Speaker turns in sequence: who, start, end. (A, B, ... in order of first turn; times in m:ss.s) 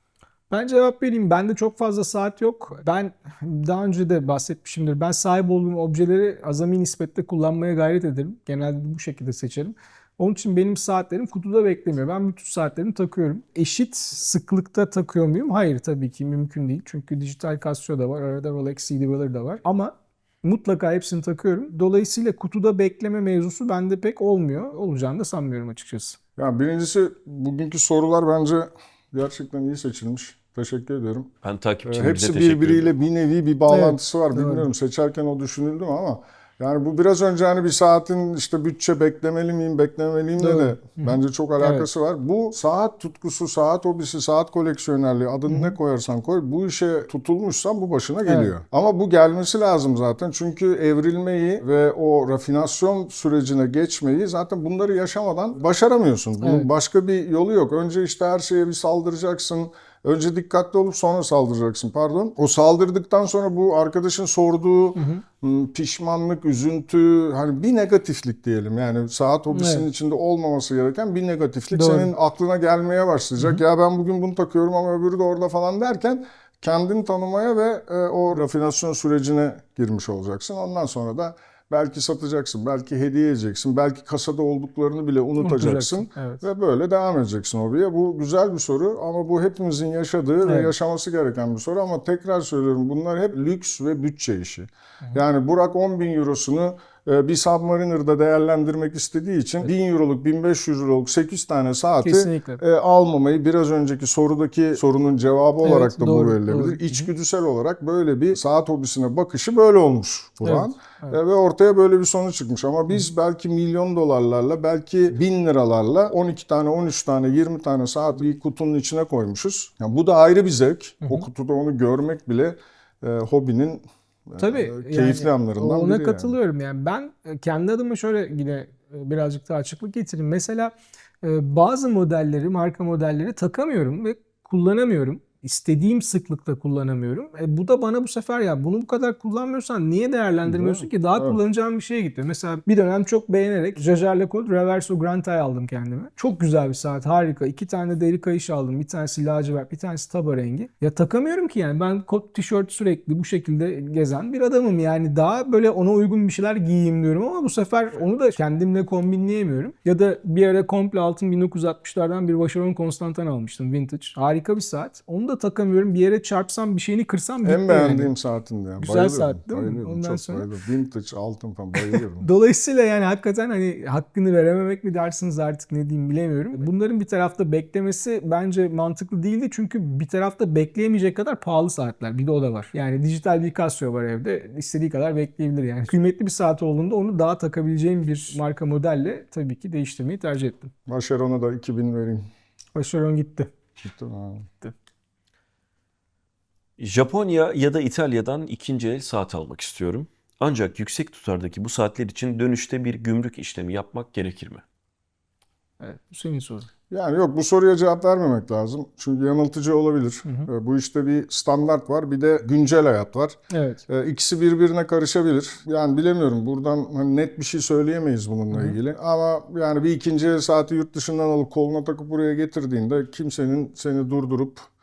0:00.5-0:26.2 A
0:26.4-0:31.3 B
0:31.4-0:32.9 C
0:31.8-2:06.4 B
0:33.7-0:34.7 A
0:40.4-0:41.9 A
0:45.5-0:45.8 A
0:48.3-0:48.5 A
0:56.4-0:56.7 A
1:05.0-1:05.2 A
1:09.5-1:09.9 A
1:11.7-1:12.1 A
1:25.4-1:26.4 A
1:30.4-1:30.7 A
1:42.0-1:42.6 A
1:45.6-1:47.1 A
1:50.4-1:51.2 A
2:01.0-2:01.3 A
2:04.4-2:48.1 A
2:20.4-2:21.4 B
2:47.4-2:52.3 B
2:48.8-2:50.5 A
2:52.2-3:10.7 A
3:10.9-3:12.3 B
3:12.8-3:13.5 A
3:13.8-3:14.5 B
3:16.8-3:24.6 C
3:25.8-3:26.7 A
3:26.9-3:33.4 B
3:30.2-3:30.5 A
3:33.5-3:33.8 A
3:33.9-3:44.7 B
3:38.5-3:38.8 A